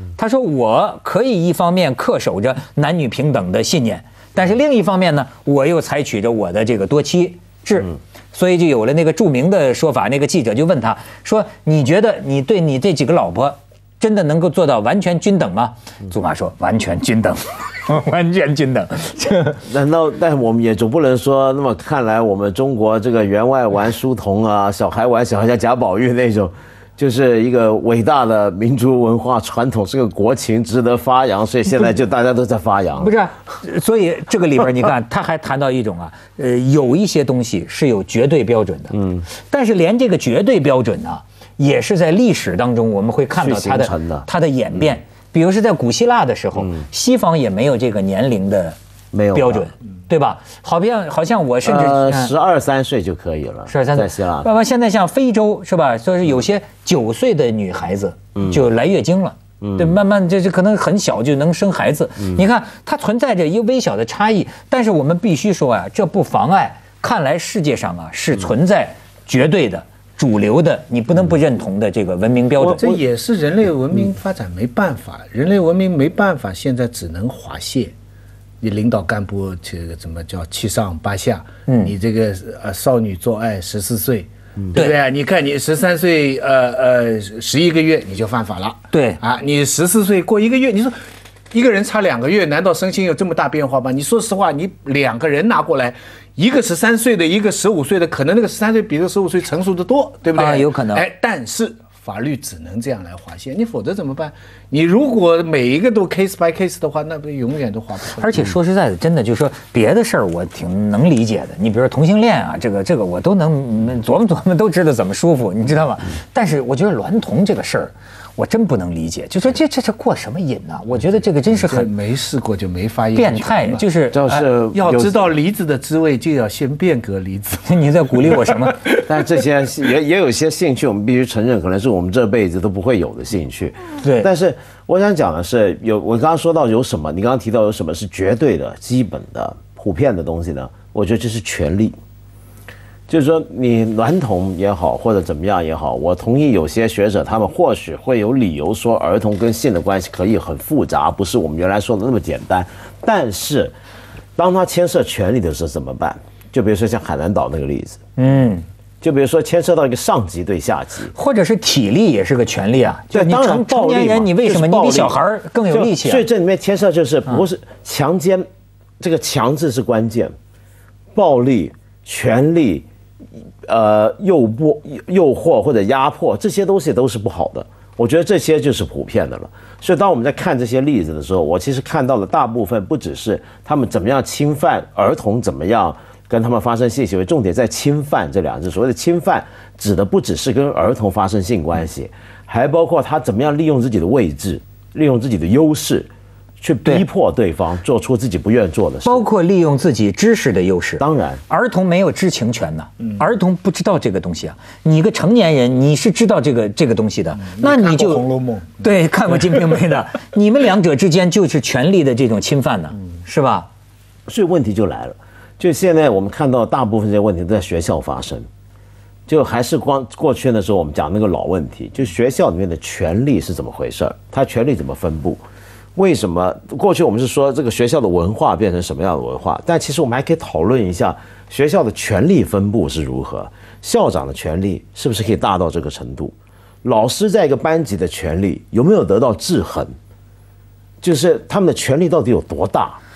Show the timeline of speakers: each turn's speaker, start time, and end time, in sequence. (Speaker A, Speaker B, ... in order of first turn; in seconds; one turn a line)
Speaker A: 0.1-19.6
Speaker B: 19.6-33.1
Speaker A: 33.0-48.8
Speaker B: 43.4-44.3
Speaker B: 49.1-49.7
Speaker A: 49.3-52.3
Speaker B: 51.6-54.5
Speaker A: 53.7-73.0
Speaker B: 59.6-60.0
Speaker C: 72.6-77.9
Speaker C: 78.6-91.0
Speaker A: 81.7-81.9
Speaker A: 88.9-89.2
Speaker C: 91.5-108.4
Speaker A: 100.3-101.0
Speaker A: 108.2-121.9
Speaker C: 121.5-128.6
Speaker A: 123.1-124.2
Speaker B: 124.1-125.2
Speaker A: 127.7-128.8
Speaker B: 129.0-141.9
Speaker A: 134.0-134.3
Speaker B: 143.1-153.7
Speaker B: 154.4-158.0
Speaker A: 158.2-158.6
Speaker B: 159.0-161.1
Speaker A: 161.1-166.2
Speaker B: 163.1-168.4
Speaker B: 169.0-170.3
Speaker B: 171.1-172.8
Speaker B: 173.6-196.1
Speaker B: 196.6-199.2
Speaker A: 199.0-208.2
Speaker B: 201.0-201.4
Speaker C: 207.4-208.9
Speaker A: 208.8-213.7
Speaker B: 214.3-218.5
Speaker B: 219.3-225.4
Speaker B: 225.9-239.9
Speaker B: 241.0-243.0